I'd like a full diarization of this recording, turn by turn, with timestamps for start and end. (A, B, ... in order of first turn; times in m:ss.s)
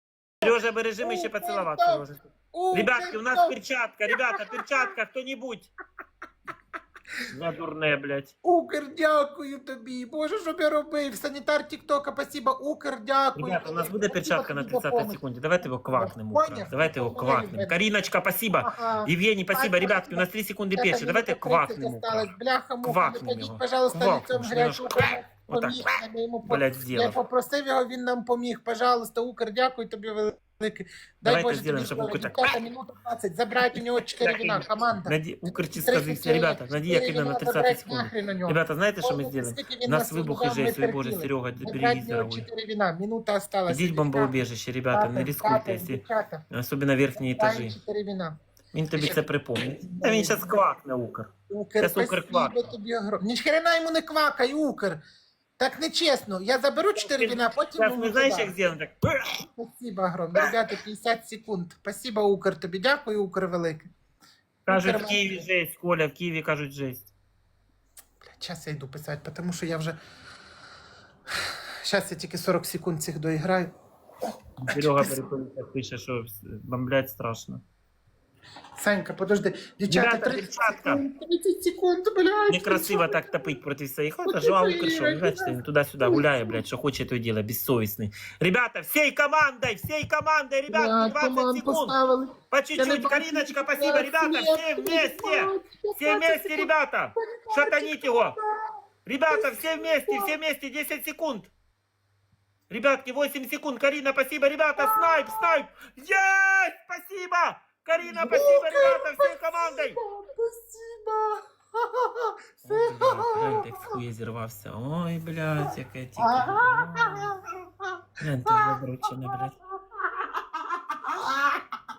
0:00.4-0:05.7 A
0:00.4-0:03.6 B
0:04.1-0:04.9 B
0:07.3-0:08.3 A
0:08.4-0:15.2 B
0:13.4-0:25.9 A
0:16.0-0:17.8 B
0:18.6-0:44.4 B
0:26.4-0:27.2 A
0:31.2-0:32.5 A
0:34.2-0:42.5 A
0:43.7-0:47.8 A
0:44.9-0:46.4 B
0:47.2-0:48.4 B
0:48.7-0:51.3 A
0:48.9-0:49.3 B
0:49.8-0:50.6 B
0:51.5-0:55.0 B
0:51.8-0:52.6 A
0:55.6-0:58.5 B
0:57.0-0:59.4 A
0:59.6-1:03.9 B
1:04.7-1:07.1 A
1:04.7-1:05.4 B
1:08.3-1:10.0 B
1:11.8-1:13.7 B
1:14.6-1:17.6 A
1:14.7-1:15.1 B
1:18.8-1:23.6 B
1:19.9-1:21.0 A
1:22.5-1:32.0 A
1:24.2-1:26.6 B
1:30.7-1:36.7 B
1:32.5-1:38.4 A
1:37.3-1:38.6 B
1:39.1-1:41.5 A
1:39.3-1:40.3 B
1:42.7-1:50.0 A
1:44.8-1:45.6 B
1:48.0-1:53.6 B
1:52.6-1:57.3 A
1:56.2-1:57.4 B
1:58.2-1:59.5 A
1:58.5-1:58.7 B
2:00.0-2:01.6 B